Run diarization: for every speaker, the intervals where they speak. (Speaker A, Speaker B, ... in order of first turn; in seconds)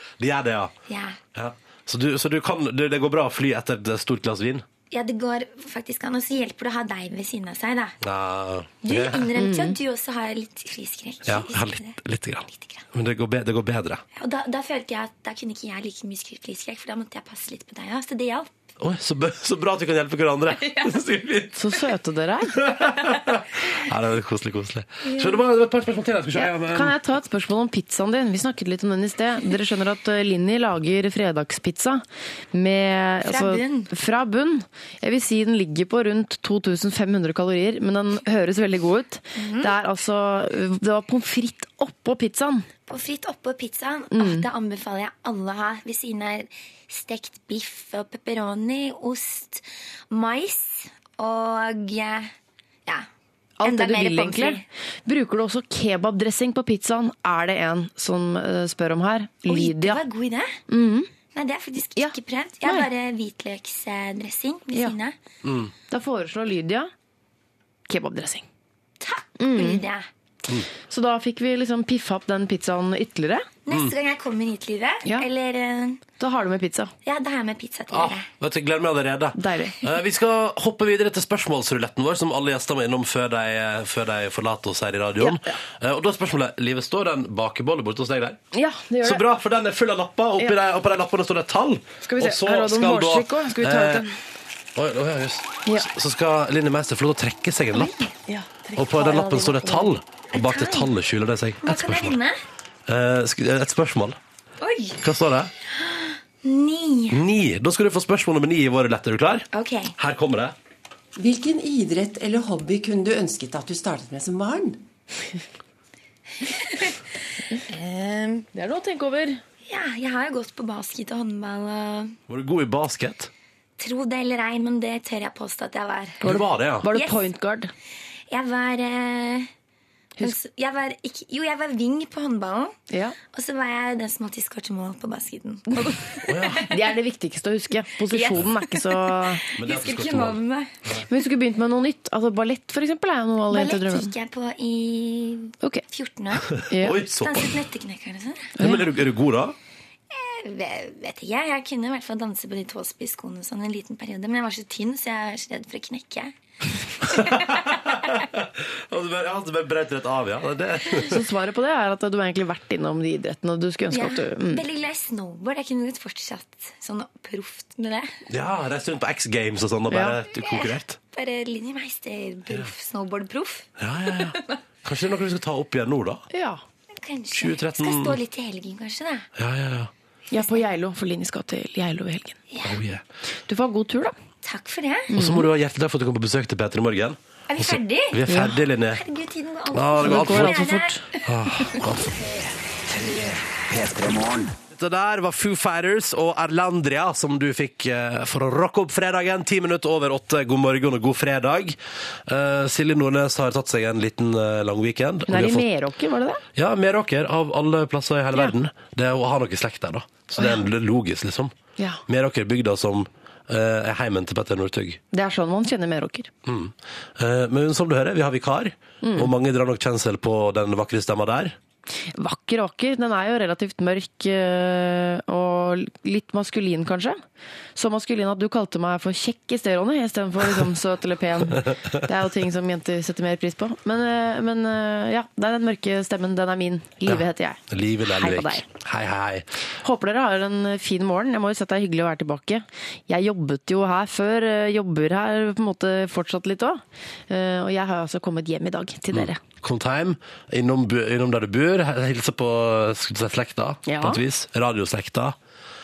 Speaker A: 0.2-0.7, 1.3-4.6, 8.0-9.3, 11.3-14.0, 18.8-21.6, 22.6-26.9, 65.4-65.7, 77.9-88.4, 89.0-94.0, 94.8-97.9, 98.8-102.2, 102.9-104.2, 105.0-105.5, 107.1-110.5, 122.3-123.3, 126.2-126.9, 136.2-136.7, 139.6-140.4, 146.5-147.5, 148.6-149.6, 157.1-161.2, 168.3-171.0, 173.8-176.2, 177.3-178.2, 179.3-179.9, 182.6-183.0, 185.1-189.0, 189.7-190.6, 191.2-192.2, 194.7-205.7, 206.6-211.5, 212.1-215.0, 216.4-221.6, 237.1-239.5, 249.1-255.3
Speaker B: 0.9-1.2, 4.9-8.0, 8.8-12.8, 14.2-18.5, 25.0-25.4, 33.2-33.9, 39.3-39.8, 42.9-52.3, 53.6-54.6, 59.5-60.6, 61.3-65.1, 69.0-70.0, 73.7-76.0, 77.0-78.3, 100.3-100.9, 101.6-102.4, 104.6-105.0, 105.7-107.2, 109.5-109.9, 116.4-116.9, 117.5-118.5, 119.6-122.2, 123.8-126.2, 126.9-127.3, 128.3-129.5, 130.2-136.0, 138.0-140.7, 143.5-148.5, 150.1-156.3, 157.0-157.8, 163.9-168.2, 170.3-174.5, 176.9-179.3, 180.3-180.6, 182.5-182.8, 184.4-185.1, 187.5-191.9
Speaker C: 9.4-9.8, 21.5-22.6, 26.3-42.7, 44.1-44.5, 53.6-60.0, 60.7-61.1, 62.0-62.9, 65.9-66.9, 67.9-68.4, 69.4-69.8, 70.9-73.5, 76.2-76.9, 79.3-79.8, 85.2-85.6, 88.5-89.2, 92.0-94.1, 97.7-99.9, 118.5-119.4, 126.2-127.7, 132.9-133.2, 136.5-139.4, 141.1-144.1, 146.7-147.0, 148.6-148.9, 161.0-164.6, 169.9-170.2, 176.3-176.6, 180.3-182.4, 183.4-184.1, 185.1-185.4, 188.3-188.6, 190.0-191.0, 205.3-206.4, 215.1-216.3, 219.0-219.3, 222.1-227.2, 227.8-238.6, 239.8-249.4, 253.8-254.2
Speaker D: 111.2-114.8
Speaker E: 192.3-194.5